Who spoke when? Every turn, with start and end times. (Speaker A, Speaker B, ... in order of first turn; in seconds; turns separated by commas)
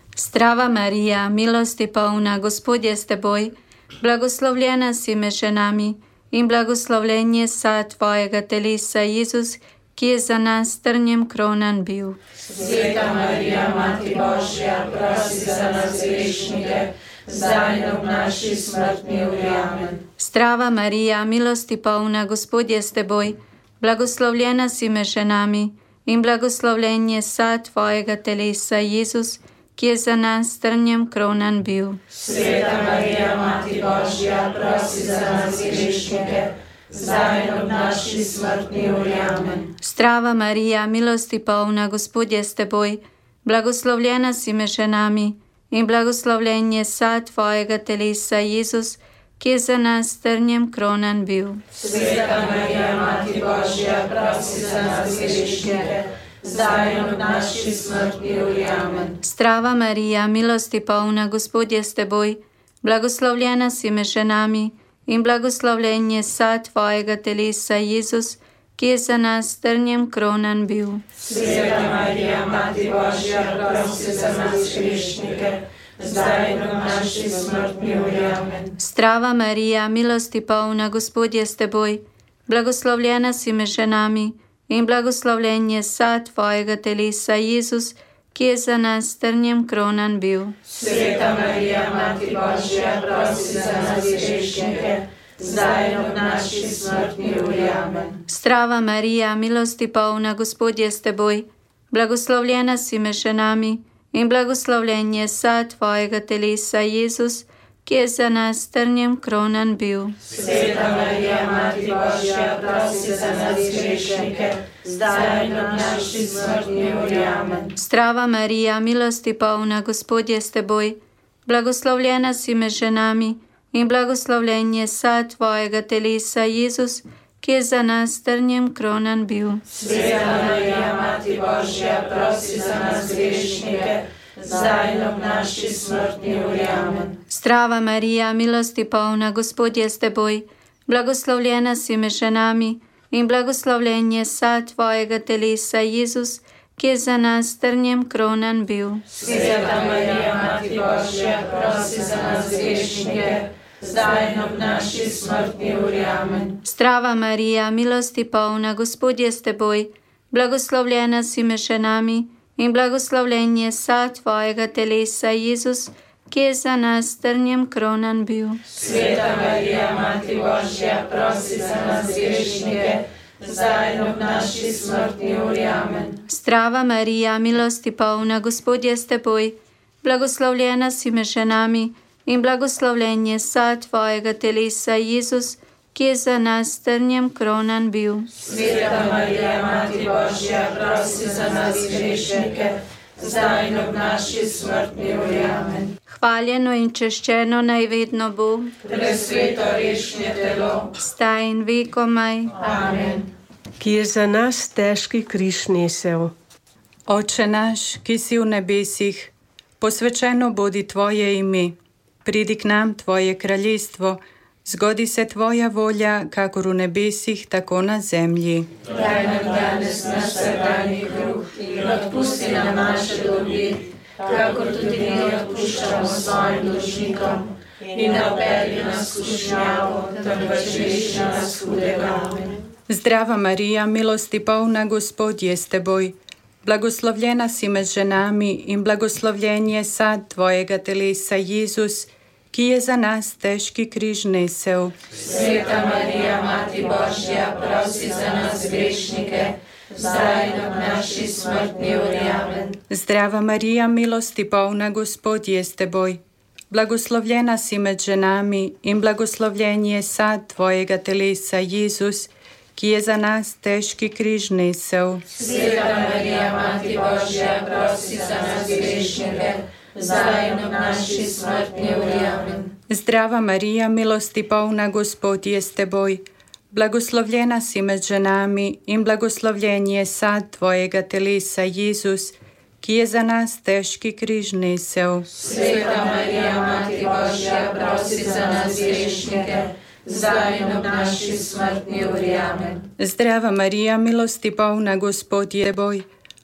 Speaker A: 0.1-12.2, Speaker B: 12.5-20.0, Speaker A: 20.2-32.0, Speaker B: 32.1-39.7, Speaker A: 39.8-51.6, Speaker B: 51.7-59.2, Speaker A: 59.2-71.0, Speaker B: 71.2-78.7, Speaker A: 78.8-90.5, Speaker B: 90.7-98.2, Speaker A: 98.3-110.2, Speaker B: 110.3-117.7, Speaker A: 117.8-129.6, Speaker B: 129.7-137.2, Speaker A: 137.3-149.1, Speaker B: 149.1-156.6, Speaker A: 156.6-168.6, Speaker B: 168.7-176.2, Speaker A: 176.3-188.3, Speaker B: 188.4-195.9, Speaker A: 196.1-198.8, Speaker B: 198.8-200.9, Speaker A: 201.0-202.6, Speaker B: 202.6-203.3, Speaker C: 203.8-206.3, Speaker D: 207.1-218.8, Speaker B: 218.8-232.6, Speaker D: 232.9-244.9, Speaker B: 245.1-252.8, Speaker D: 252.9-265.2, Speaker B: 265.3-272.7, Speaker D: 272.9-285.3, Speaker B: 285.3-292.9, Speaker D: 293.0-296.1